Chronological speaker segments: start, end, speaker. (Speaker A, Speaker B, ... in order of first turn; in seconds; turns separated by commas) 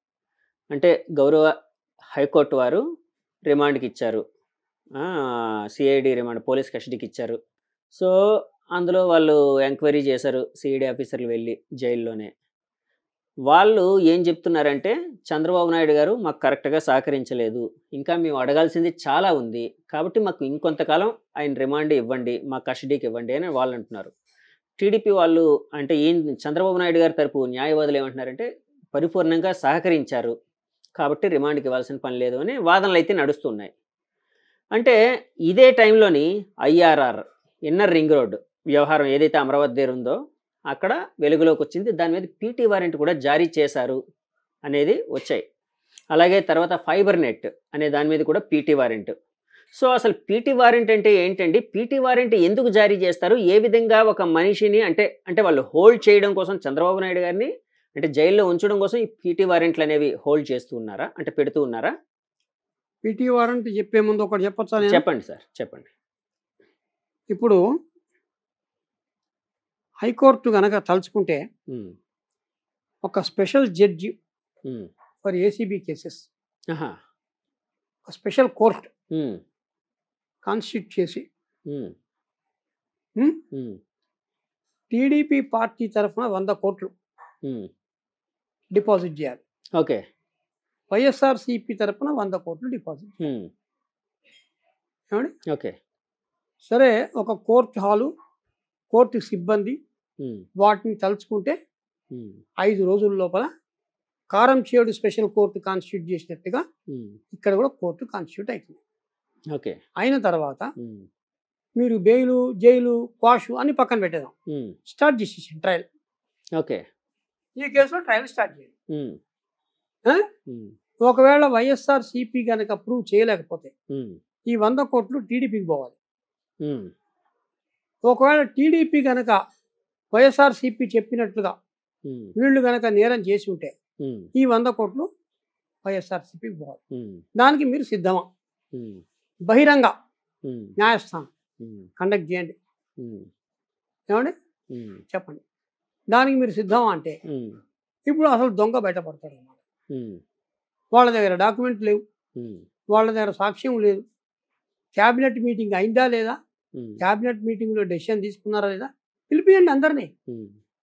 Speaker A: 0.7-1.5, Speaker A: 2.1-2.8, Speaker A: 3.5-4.2, Speaker A: 5.0-7.4, Speaker A: 8.8-12.3, Speaker A: 13.5-24.1, Speaker A: 24.8-30.4, Speaker A: 31.0-33.7, Speaker A: 35.5-40.2, Speaker A: 40.7-44.0, Speaker A: 44.6-45.4, Speaker A: 46.1-49.1, Speaker A: 49.7-61.9, Speaker B: 63.0-65.0, Speaker A: 64.8-65.9, Speaker B: 67.3-67.6, Speaker B: 70.0-71.4, Speaker A: 71.7-71.9, Speaker B: 73.0-74.1, Speaker B: 75.2-76.2, Speaker A: 76.7-77.0, Speaker B: 78.0-78.9, Speaker A: 79.1-79.4, Speaker B: 80.4-81.2, Speaker A: 81.7-81.9, Speaker A: 83.5-83.8, Speaker B: 84.9-86.9, Speaker B: 88.7-89.4, Speaker A: 89.8-90.0, Speaker B: 90.9-93.2, Speaker A: 93.2-93.5, Speaker A: 95.5-95.8, Speaker B: 96.6-98.1, Speaker B: 98.9-99.8, Speaker A: 100.2-100.5, Speaker B: 100.6-101.5, Speaker A: 102.1-102.4, Speaker B: 102.6-103.5, Speaker B: 104.3-106.6, Speaker A: 106.9-107.2, Speaker B: 107.3-108.8, Speaker A: 109.5-109.8, Speaker B: 110.0-110.7, Speaker A: 110.8-111.1, Speaker B: 111.8-114.3, Speaker A: 114.5-114.8, Speaker B: 114.9-115.8, Speaker A: 116.6-116.8, Speaker B: 117.6-118.7, Speaker A: 118.9-119.2, Speaker A: 120.5-120.7, Speaker B: 121.0-123.7, Speaker A: 123.9-124.2, Speaker B: 124.5-125.9, Speaker A: 126.6-126.9, Speaker B: 128.1-129.4, Speaker B: 130.1-131.5, Speaker A: 132.1-132.3, Speaker B: 132.4-133.7, Speaker A: 134.0-134.3, Speaker B: 134.3-135.1, Speaker B: 135.8-136.8, Speaker A: 136.9-137.2, Speaker B: 137.4-138.2, Speaker A: 138.7-139.0, Speaker B: 139.5-139.9, Speaker A: 140.4-140.7, Speaker B: 140.8-141.3, Speaker A: 141.6-141.9, Speaker B: 142.0-142.5, Speaker A: 143.0-143.3, Speaker A: 144.7-145.0, Speaker B: 145.1-145.4, Speaker B: 146.1-147.2, Speaker A: 147.3-147.6, Speaker B: 148.1-149.5, Speaker A: 149.9-150.2, Speaker B: 150.9-152.0, Speaker A: 152.4-152.6, Speaker B: 152.9-154.0, Speaker B: 154.9-156.4, Speaker A: 156.8-157.0, Speaker B: 157.0-160.1, Speaker A: 160.3-160.6